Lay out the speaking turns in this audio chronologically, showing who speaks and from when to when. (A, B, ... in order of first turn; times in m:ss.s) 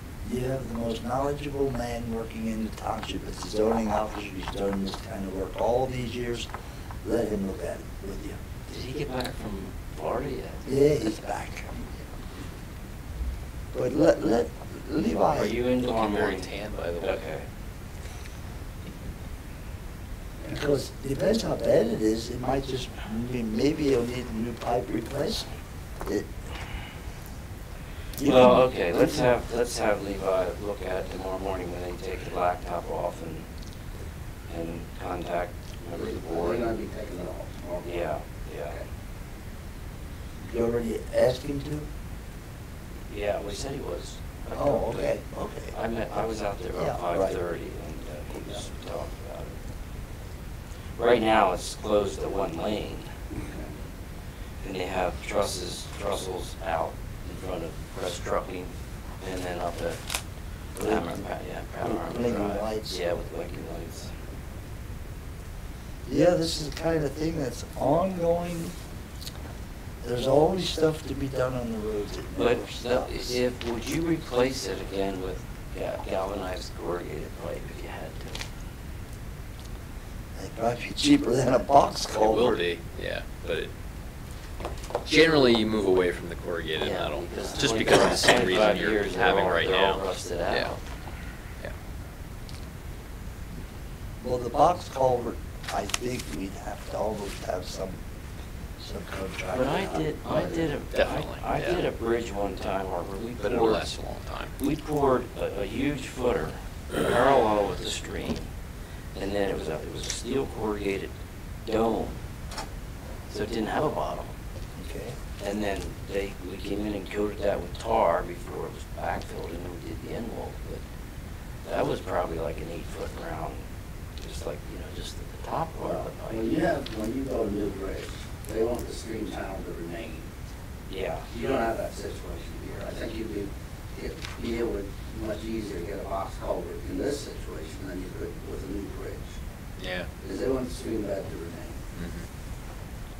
0:00.2-0:06.5 A
0:07.0-0:08.4 A
0:08.7-0:11.2 B
0:10.7-0:11.9 A
0:13.7-0:15.6 A
0:15.2-0:17.5 B
0:15.8-0:17.2 C
0:20.4-0:25.5 A
0:28.2-0:29.3 A
0:28.2-0:33.4 B
0:34.5-0:36.7 B
0:35.9-0:38.0 D
0:37.8-0:38.8 B
0:40.4-0:41.9 A
0:43.1-0:45.1 B
0:44.5-0:45.7 A
0:45.7-0:49.6 B
0:46.7-0:47.4 A
0:51.0-0:53.1 B
0:53.3-0:53.7 D
0:54.6-1:00.0 B
1:00.8-1:04.1 B
1:00.8-1:01.2 A
1:01.8-1:03.0 A
1:06.1-1:08.8 A
1:10.0-1:13.4 A
1:12.4-1:18.4 B
1:20.3-1:22.6 A
1:22.1-1:23.7 C
1:25.0-1:30.7 C
1:26.8-1:30.8 B
1:34.2-1:38.0 A
1:38.8-1:40.7 A
1:39.5-1:43.9 B
1:40.9-1:41.8 C
1:43.4-1:44.6 C
1:44.6-1:48.5 B
1:49.1-1:52.2 B
1:53.3-1:54.3 B
1:54.8-1:55.2 A
1:55.4-2:00.8 B
2:01.6-2:03.6 B
2:04.2-2:06.5 B
2:05.8-2:10.3 D
2:10.9-2:11.3 B
2:11.3-2:19.4 D
2:19.8-2:20.1 C
2:20.2-2:21.8 D
2:21.9-2:22.2 C